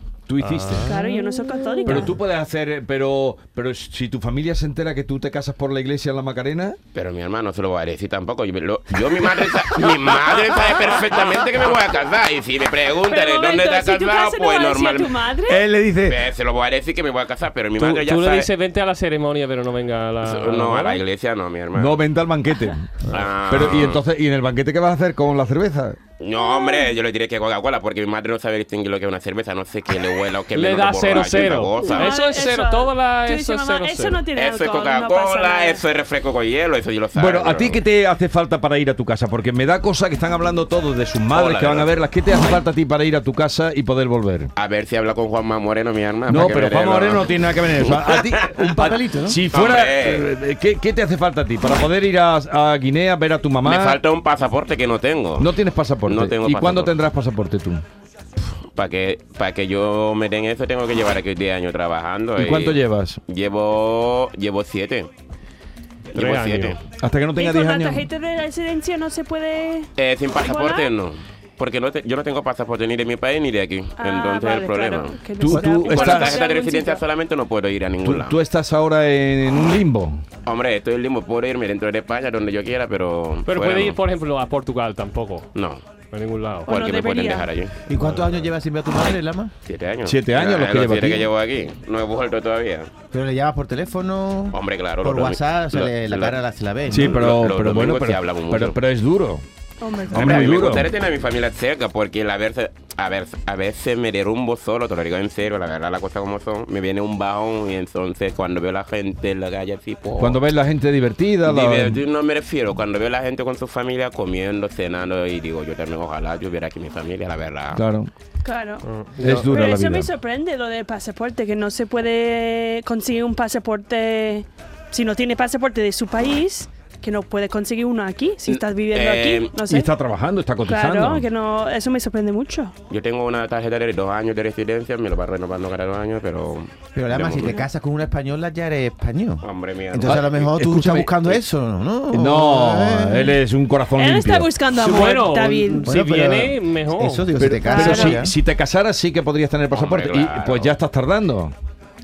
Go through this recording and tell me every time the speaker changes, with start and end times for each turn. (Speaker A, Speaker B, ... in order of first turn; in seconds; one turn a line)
Speaker A: 0.3-0.9
Speaker B: 0.4-2.1
Speaker C: 0.9-2.1
Speaker A: 1.9-6.8
Speaker D: 6.9-15.2
Speaker C: 13.1-15.6
Speaker A: 15.5-16.2
Speaker D: 16.1-18.5
Speaker B: 17.8-21.0
Speaker D: 20.2-22.0
Speaker A: 21.8-23.0
Speaker D: 23.1-24.0
Speaker A: 23.5-26.0
Speaker D: 26.2-32.2
Speaker C: 26.4-26.9
Speaker B: 30.5-34.3
Speaker C: 31.9-35.8
Speaker D: 34.4-37.8
Speaker A: 37.1-44.5
Speaker D: 41.3-42.0
Speaker D: 44.6-48.5
Speaker A: 46.3-54.0
Speaker E: 48.6-49.4
Speaker D: 49.5-50.3
Speaker D: 53.6-55.5
Speaker A: 55.4-57.8
Speaker D: 56.0-57.0
Speaker D: 58.4-65.1
Speaker A: 62.4-63.2
Speaker D: 66.1-66.8
Speaker B: 66.2-66.8
Speaker A: 66.9-68.1
Speaker C: 67.4-69.9
Speaker D: 70.0-78.4
Speaker C: 70.4-70.9
Speaker C: 74.0-77.0
Speaker A: 75.4-76.4
Speaker A: 78.0-80.2
Speaker D: 80.5-84.0
Speaker B: 83.5-85.5
Speaker D: 85.5-85.8
Speaker B: 86.1-86.7
Speaker C: 86.7-87.5
Speaker D: 86.7-87.8
Speaker E: 87.9-89.5
Speaker B: 87.9-88.4
Speaker D: 89.7-92.9
Speaker A: 90.0-91.3
Speaker E: 93.1-97.2
Speaker D: 94.5-96.4
Speaker A: 96.9-99.4
Speaker D: 96.9-98.8
Speaker C: 99.8-100.5
Speaker A: 100.1-100.9
Speaker D: 100.1-110.4
Speaker A: 110.2-112.0
Speaker D: 111.4-117.8
Speaker A: 117.8-118.1
Speaker C: 118.4-129.9
Speaker B: 118.8-119.6
Speaker A: 119.2-120.1
Speaker D: 128.5-129.5
Speaker A: 129.7-131.3
Speaker C: 130.7-132.7
Speaker D: 132.9-137.6
Speaker E: 136.9-143.4
Speaker D: 139.4-140.5
Speaker A: 140.1-141.3
Speaker A: 142.1-144.6
Speaker C: 144.0-145.9
Speaker B: 144.7-147.3
Speaker E: 145.8-148.4
Speaker A: 147.4-151.5
Speaker C: 147.7-148.2
Speaker D: 149.7-150.8